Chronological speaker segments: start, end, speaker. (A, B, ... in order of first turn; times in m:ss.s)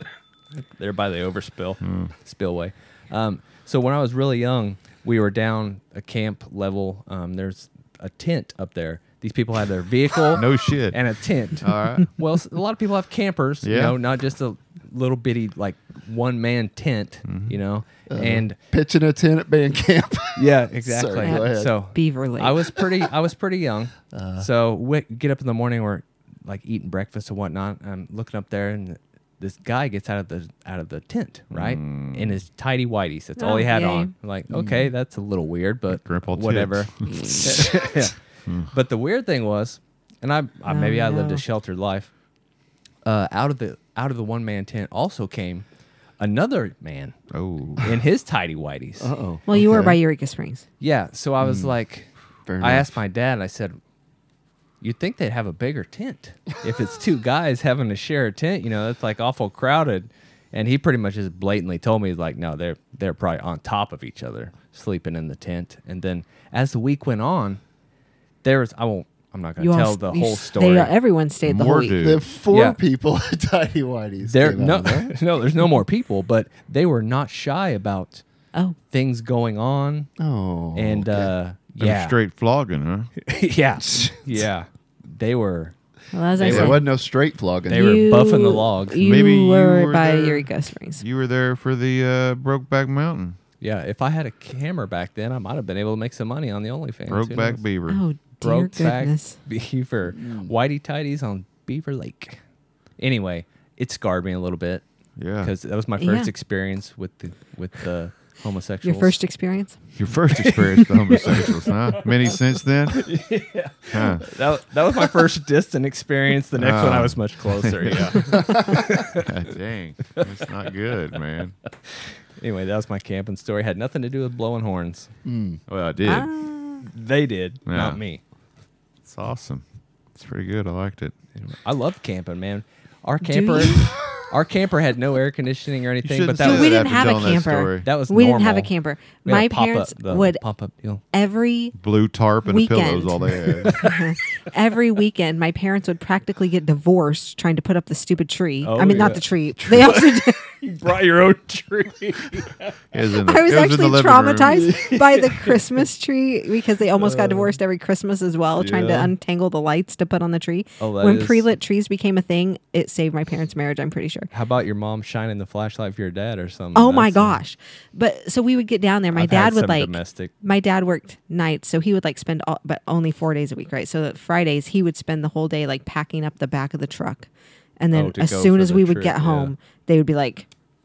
0:00.6-0:18.6 A
0:01.8-0:02.1 B
0:10.3-0:11.0 B
0:11.6-0:12.1 B
0:13.6-0:14.0 B
0:17.2-0:17.6 B
0:18.1-0:21.7 C
0:20.4-0:38.2 A
0:21.2-0:22.6 D
0:24.1-0:24.5 C
0:31.5-0:32.4 B
0:33.4-0:34.1 D
0:34.5-0:34.8 C
0:35.9-0:37.5 B
0:38.7-0:42.1 A
0:40.7-0:41.4 D
0:43.0-0:45.6 A
0:46.2-0:47.1 A
0:47.3-0:47.9 B
0:47.8-0:49.1 A
0:49.0-0:50.0 C
0:49.5-0:50.6 D
0:50.8-0:52.1 A
0:51.4-0:51.7 C
0:52.4-0:52.9 C
0:52.6-0:53.8 A
0:54.8-1:07.6 A
1:08.4-1:10.9 A
1:09.6-1:12.0 D
1:11.4-1:12.2 B
1:12.0-1:15.1 C
1:12.5-1:12.8 A
1:14.2-1:18.2 A
1:18.9-1:20.1 A
1:20.2-1:21.3 C
1:20.7-1:22.2 A
1:21.8-1:23.1 B
1:23.2-1:25.7 A
1:23.8-1:24.4 C
1:26.1-1:26.9 D
1:26.4-1:26.9 A
1:26.4-1:28.1 C
1:27.7-1:29.0 A
1:27.7-1:31.0 D
1:28.9-1:33.4 B
1:33.6-1:37.6 A
1:37.1-1:38.0 B
1:37.9-1:39.4 D
1:38.4-1:42.4 A
1:40.1-1:40.5 C
1:43.0-1:44.8 A
1:45.2-1:45.5 B
1:45.4-1:49.2 A
1:46.0-1:46.3 D
1:48.8-1:49.8 D
1:50.0-1:53.2 B
1:50.4-1:52.4 A
1:52.9-1:59.3 A
1:53.9-1:54.2 B
1:56.6-2:01.5 B
1:58.4-1:58.8 C
2:00.2-2:00.5 A
2:01.9-2:05.1 A
2:05.2-2:05.6 C
2:05.7-2:06.3 B
2:06.0-2:06.8 D
2:06.8-2:08.2 A
2:07.7-2:08.0 B
2:09.0-2:09.6 B
2:10.1-2:11.1 B
2:11.4-2:17.1 A
2:13.2-2:13.9 D
2:16.0-2:17.9 B
2:16.4-2:20.4 D
2:17.8-2:21.0 A
2:21.1-2:21.8 D
2:21.8-2:23.8 B
2:22.4-2:30.4 D
2:23.4-2:24.0 A
2:28.6-2:32.8 A
2:32.9-2:34.7 B
2:33.2-2:44.3 D
2:34.5-2:35.6 A
2:37.0-2:37.6 A
2:38.6-2:39.1 A
2:40.8-2:41.5 A
2:44.3-2:47.4 A
2:46.7-2:57.3 D
2:49.1-2:50.3 A
2:57.8-3:00.5 D
2:57.9-2:59.5 A